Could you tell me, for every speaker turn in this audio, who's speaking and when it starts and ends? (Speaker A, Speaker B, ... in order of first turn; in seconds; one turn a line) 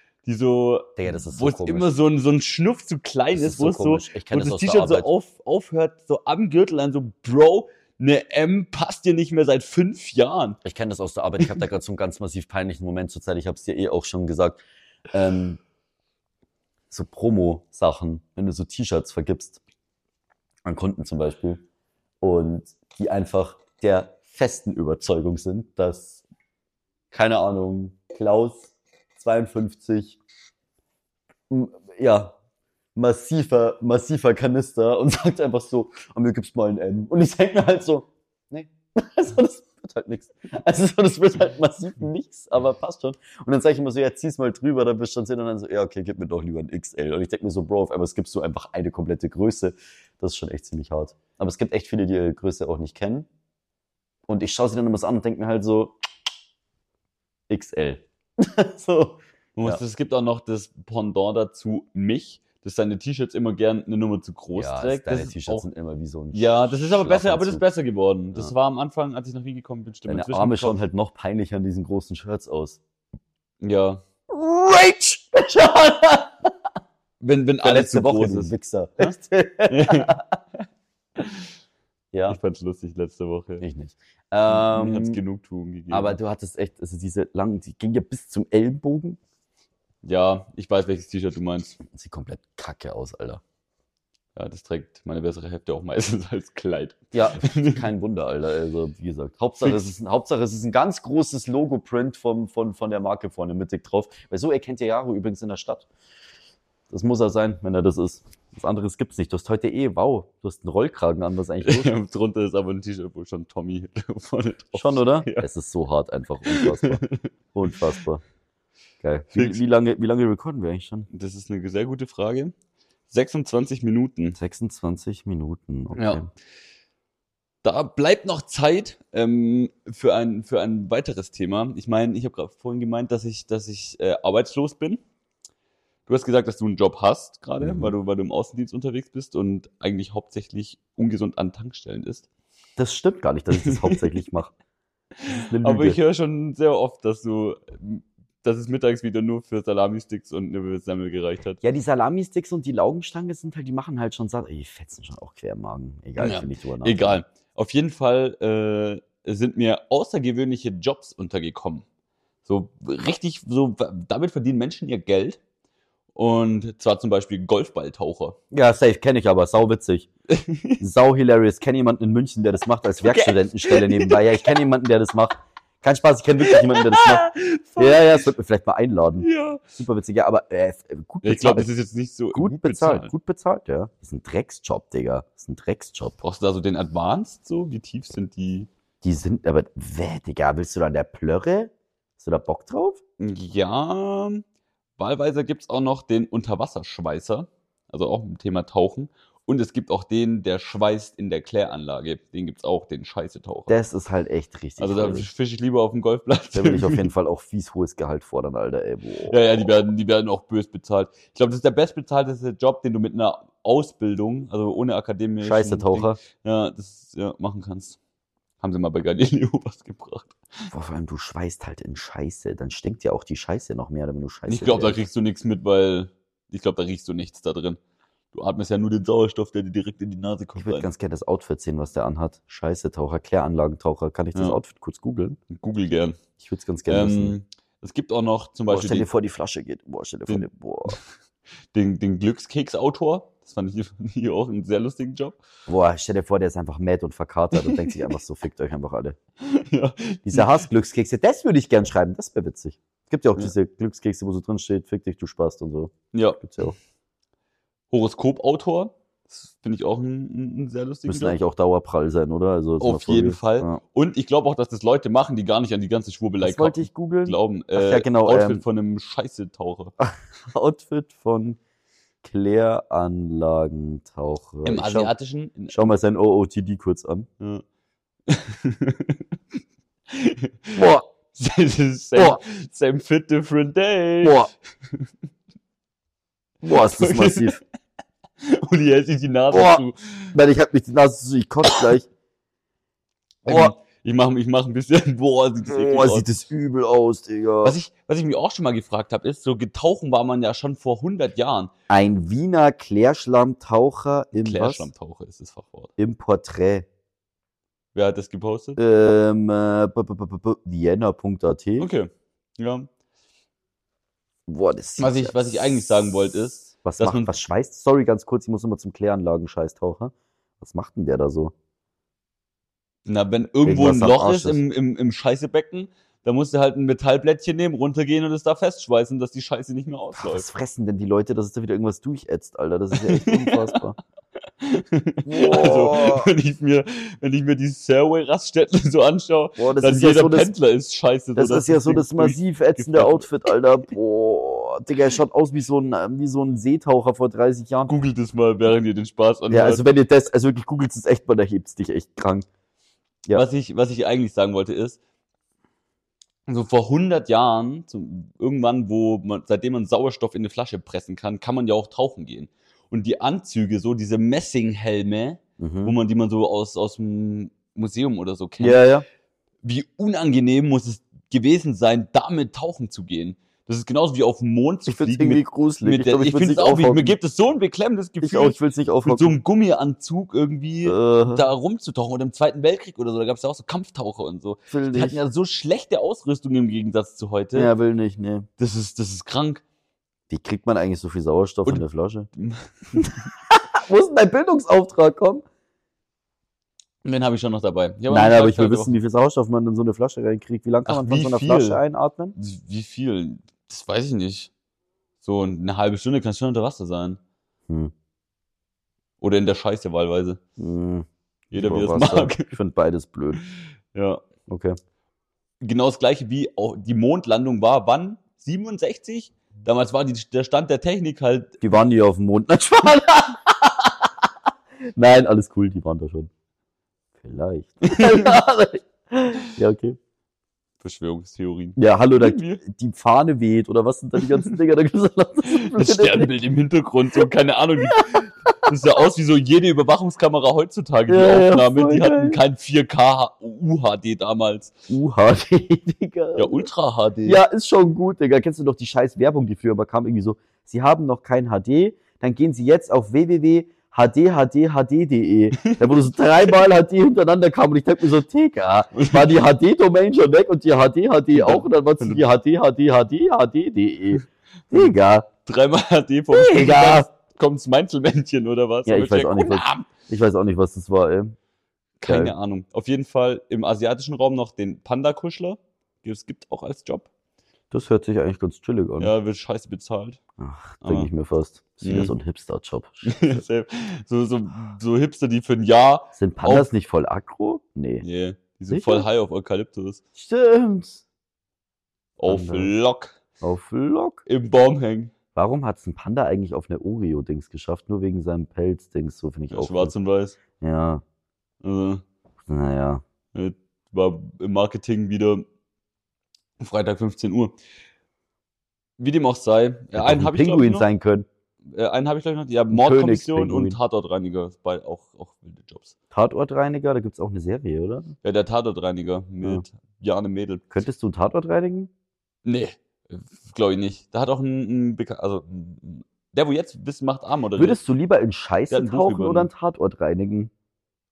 Speaker A: 0.2-10.6
Speaker B: 1.0-1.9
Speaker B: 3.3-5.1
Speaker B: 10.6-15.6
Speaker B: 16.9-19.6
Speaker B: 20.6-21.6
Speaker B: 22.2-26.2
Speaker B: 27.1-30.2
Speaker B: 31.5-32.3
Speaker B: 32.9-53.3
Speaker B: 54.3-55.9
Speaker B: 57.5-59.8
Speaker A: 59.5-65.6
Speaker B: 64.5-67.6
Speaker A: 66.3-70.8
Speaker B: 70.1-72.8
Speaker A: 73.6-74.0
Speaker B: 74.3-76.5
Speaker A: 77.2-79.1
Speaker B: 77.6-80.2
Speaker A: 79.7-80.2
Speaker A: 81.2-81.5
Speaker B: 82.1-82.4
Speaker A: 82.3-83.6
Speaker B: 83.6-85.2
Speaker A: 84.5-86.2
Speaker B: 85.9-89.2
Speaker A: 90.0-91.8
Speaker B: 91.8-93.4
Speaker A: 94.3-97.8
Speaker B: 97.1-105.9
Speaker B: 106.9-111.9
Speaker A: 111.6-115.5
Speaker B: 114.7-117.0
Speaker A: 116.5-117.3
Speaker B: 117.5-118.2
Speaker B: 119.0-121.1
Speaker A: 119.3-119.6
Speaker A: 121.1-122.5
Speaker A: 123.1-124.4
Speaker B: 124.3-126.3
Speaker A: 125.9-126.2
Speaker A: 127.6-135.0
Speaker A: 136.1-142.3
Speaker B: 137.6-137.9
Speaker B: 142.8-144.5
Speaker A: 143.6-144.0
Speaker A: 145.2-151.6
Speaker B: 145.3-146.0
Speaker B: 151.6-157.2
Speaker A: 156.2-161.8
Speaker A: 162.4-165.4
Speaker A: 166.1-168.4
Speaker B: 168.5-170.1
Speaker A: 170.3-170.8
Speaker B: 170.8-181.7
Speaker A: 173.0-174.5
Speaker A: 176.4-178.2
Speaker A: 179.2-179.6
Speaker A: 181.2-183.1
Speaker B: 182.3-186.2
Speaker A: 186.2-188.7
Speaker B: 189.0-193.0
Speaker A: 193.2-194.4
Speaker A: 195.0-203.8
Speaker B: 203.7-205.3
Speaker A: 204.8-207.1
Speaker B: 206.5-209.6
Speaker A: 209.3-218.0
Speaker B: 215.4-216.2
Speaker A: 218.6-220.7
Speaker B: 220.7-225.0
Speaker A: 224.5-227.8
Speaker A: 228.3-230.9
Speaker B: 230.6-235.4
Speaker A: 235.5-236.2
Speaker B: 236.4-237.3
Speaker A: 236.9-239.1
Speaker B: 238.7-241.0
Speaker A: 240.3-241.0
Speaker A: 241.7-245.4
Speaker B: 245.7-249.2
Speaker A: 247.6-247.9
Speaker A: 249.4-250.5
Speaker B: 250.2-256.7
Speaker A: 256.1-256.7
Speaker A: 257.9-261.4
Speaker B: 261.1-263.8
Speaker A: 262.8-269.9
Speaker B: 266.4-268.6
Speaker B: 270.0-271.6
Speaker B: 272.2-275.1
Speaker A: 274.6-275.8
Speaker B: 275.7-277.3
Speaker A: 278.3-279.4
Speaker A: 280.1-284.5
Speaker B: 280.7-281.1
Speaker B: 284.2-284.5
Speaker B: 286.6-287.6
Speaker A: 286.7-287.6
Speaker A: 288.4-290.3
Speaker B: 289.5-289.8
Speaker B: 290.3-292.1
Speaker A: 293.4-296.3
Speaker B: 293.4-293.7
Speaker B: 295.7-297.8
Speaker A: 297.6-301.7
Speaker B: 301.9-304.9
Speaker A: 304.3-305.9
Speaker B: 306.0-306.9
Speaker A: 307.9-308.8
Speaker B: 308.8-311.9
Speaker A: 311.8-312.9
Speaker B: 314.5-321.5
Speaker A: 315.0-317.3
Speaker A: 323.1-330.5
Speaker B: 323.6-324.6
Speaker B: 330.2-334.0
Speaker A: 333.0-333.7
Speaker A: 334.6-343.3
Speaker B: 335.2-336.3
Speaker B: 339.6-340.5
Speaker B: 341.4-347.9
Speaker A: 347.9-349.8
Speaker B: 349.5-352.4
Speaker A: 353.3-355.0
Speaker A: 356.5-368.8
Speaker B: 365.6-365.9
Speaker B: 368.6-369.0
Speaker A: 369.6-387.7
Speaker B: 374.9-377.2
Speaker B: 378.2-379.3
Speaker B: 380.8-381.4
Speaker B: 384.7-385.2
Speaker B: 387.5-388.5
Speaker A: 388.6-389.6
Speaker B: 390.3-392.3
Speaker A: 392.4-393.3
Speaker B: 393.0-395.4
Speaker A: 397.0-399.0
Speaker B: 398.1-402.3
Speaker A: 400.9-401.8
Speaker A: 402.4-404.5
Speaker A: 405.2-407.2
Speaker A: 409.2-410.4
Speaker B: 410.6-413.4
Speaker A: 411.5-412.5
Speaker A: 413.4-414.2
Speaker B: 414.5-414.8
Speaker A: 415.6-421.6
Speaker B: 421.6-424.1
Speaker B: 424.9-426.3
Speaker B: 427.2-430.0
Speaker A: 427.9-428.3
Speaker A: 430.8-432.6
Speaker B: 431.8-436.3
Speaker A: 434.2-434.5
Speaker A: 435.5-444.7
Speaker B: 437.9-438.7
Speaker B: 441.1-442.4
Speaker B: 444.9-446.7
Speaker A: 446.4-447.4
Speaker B: 447.2-465.3
Speaker A: 455.6-456.1
Speaker A: 458.9-459.3
Speaker A: 461.3-462.2
Speaker A: 465.4-469.9
Speaker B: 466.3-467.1
Speaker B: 468.9-471.4
Speaker A: 472.0-477.1
Speaker B: 472.1-472.3
Speaker B: 477.7-479.1
Speaker A: 479.0-480.2
Speaker B: 480.4-483.4
Speaker A: 480.8-481.1
Speaker A: 481.8-482.1
Speaker A: 483.0-486.7
Speaker B: 486.1-488.0
Speaker A: 488.0-490.0
Speaker B: 488.7-489.1
Speaker B: 490.1-491.0
Speaker A: 492.2-493.2
Speaker B: 492.3-492.7
Speaker B: 493.4-494.2
Speaker A: 494.2-495.1
Speaker B: 495.3-499.9
Speaker A: 499.5-500.4
Speaker B: 500.5-501.0
Speaker A: 501.6-502.0
Speaker B: 502.4-503.0
Speaker A: 503.3-505.4
Speaker A: 506.6-507.6
Speaker A: 509.0-510.9
Speaker B: 509.9-511.3
Speaker A: 511.6-515.9
Speaker B: 512.7-513.8
Speaker B: 516.1-518.1
Speaker A: 518.2-520.6
Speaker B: 520.7-521.9
Speaker A: 522.4-527.8
Speaker B: 527.5-530.5
Speaker A: 528.7-529.5